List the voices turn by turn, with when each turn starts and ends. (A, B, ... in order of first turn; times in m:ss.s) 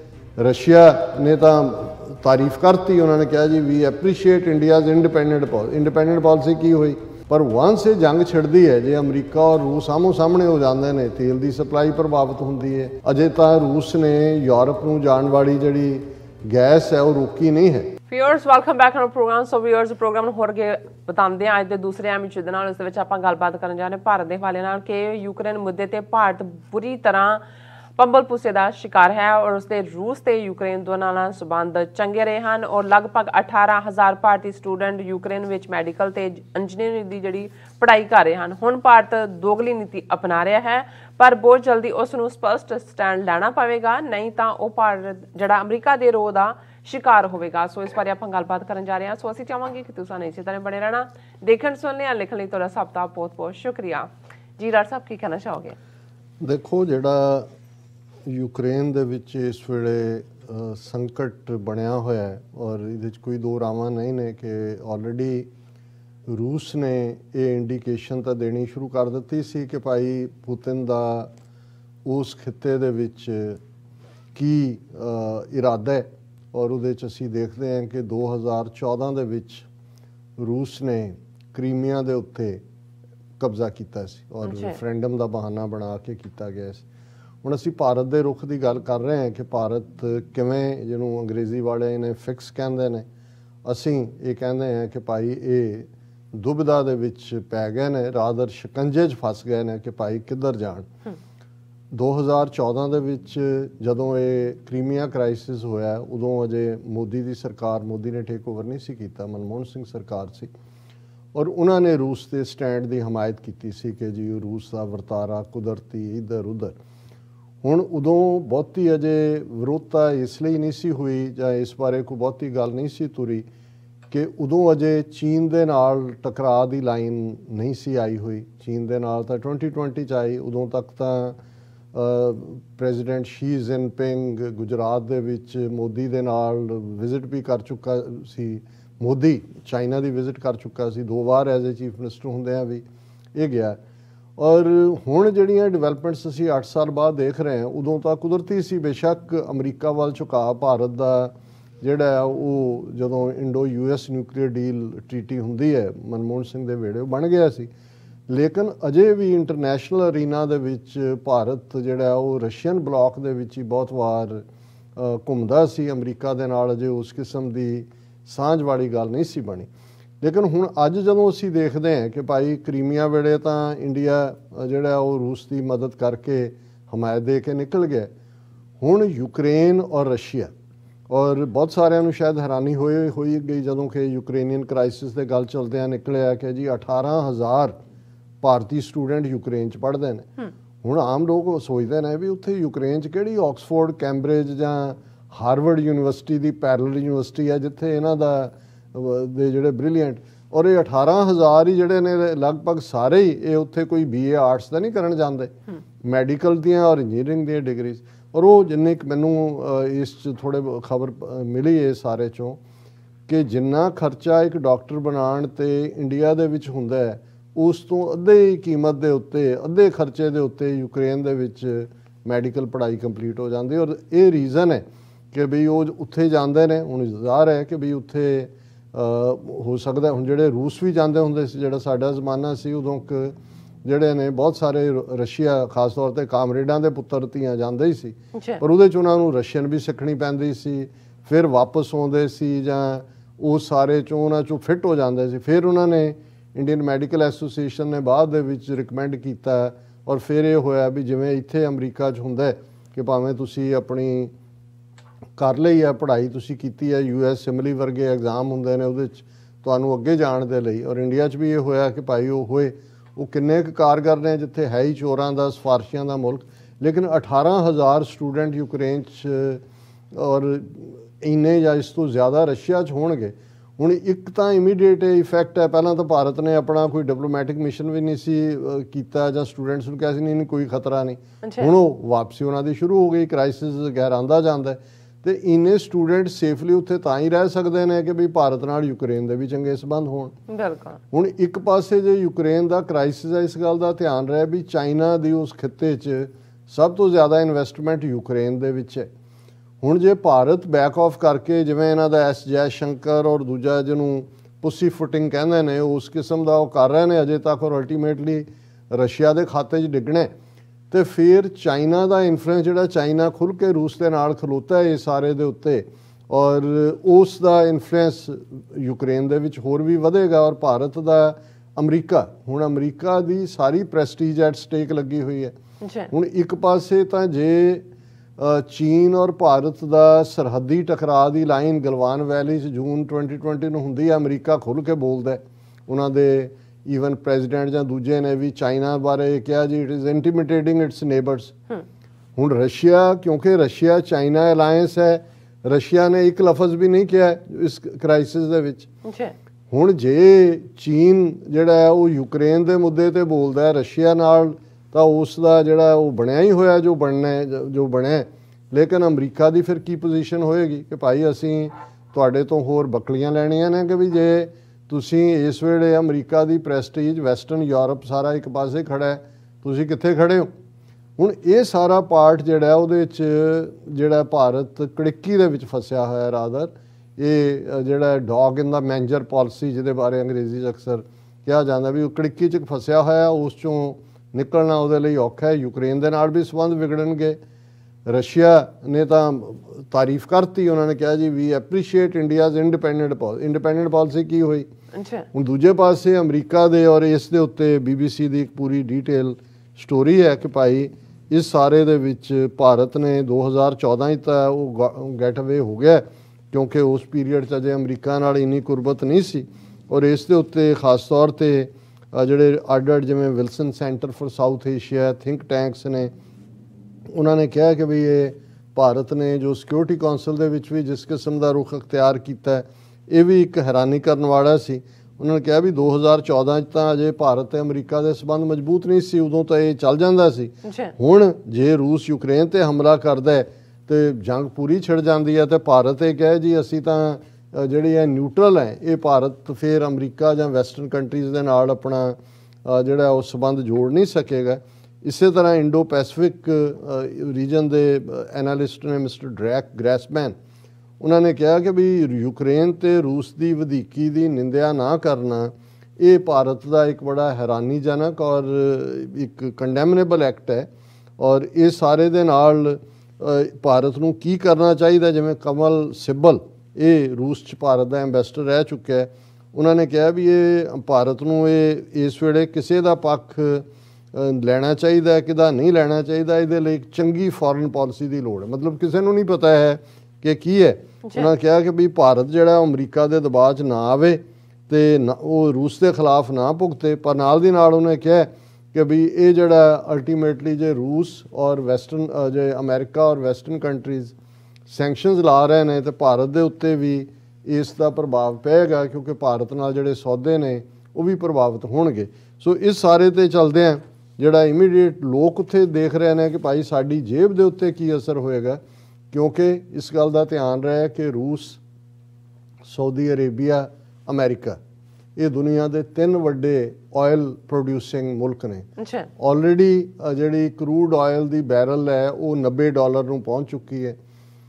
0:00.4-0:17.9 A
0:18.1-0:27.4 B
0:28.0-0:55.8 B
0:56.4-0:57.5 A
0:58.3-1:05.5 A
1:06.3-1:11.3 A
1:12.0-1:13.6 A
1:14.4-1:19.7 A
1:20.4-1:22.6 A
1:23.4-1:26.8 A
1:24.4-1:24.8 B
1:27.4-1:33.0 A
1:33.6-1:40.9 A
1:41.9-1:50.5 A
1:51.3-1:56.8 A
1:57.6-2:03.5 A
2:04.1-2:11.4 A
2:11.9-2:23.8 A
2:24.4-2:37.7 A
2:38.3-2:44.4 A
2:45.0-2:49.7 A
2:50.2-2:58.1 A
2:58.8-3:00.5 A
3:01.1-3:07.8 A
3:08.4-3:10.3 A
3:10.8-3:32.6 A
3:33.3-4:14.3 A
3:58.3-3:58.6 B
4:15.4-4:50.3 A
4:41.4-4:41.7 B
4:50.5-4:51.0 B
4:51.1-4:59.1 A
4:59.8-5:10.3 A
5:10.9-5:25.6 A
5:25.8-5:26.1 B
5:26.1-5:27.9 A
5:28.4-5:41.6 A
5:42.4-5:48.9 A
5:49.0-5:49.4 B
5:49.7-6:10.5 A
6:11.2-6:27.4 A
6:28.1-6:34.7 A
6:34.9-6:35.3 B
6:35.3-6:56.1 A
6:57.1-7:30.4 A
7:10.6-7:11.0 B
7:31.0-8:14.1 A
8:14.7-8:28.6 A
8:29.1-8:31.6 A
8:32.6-8:34.6 A
8:35.2-8:38.7 A
8:38.8-8:39.1 B
8:39.2-8:44.0 A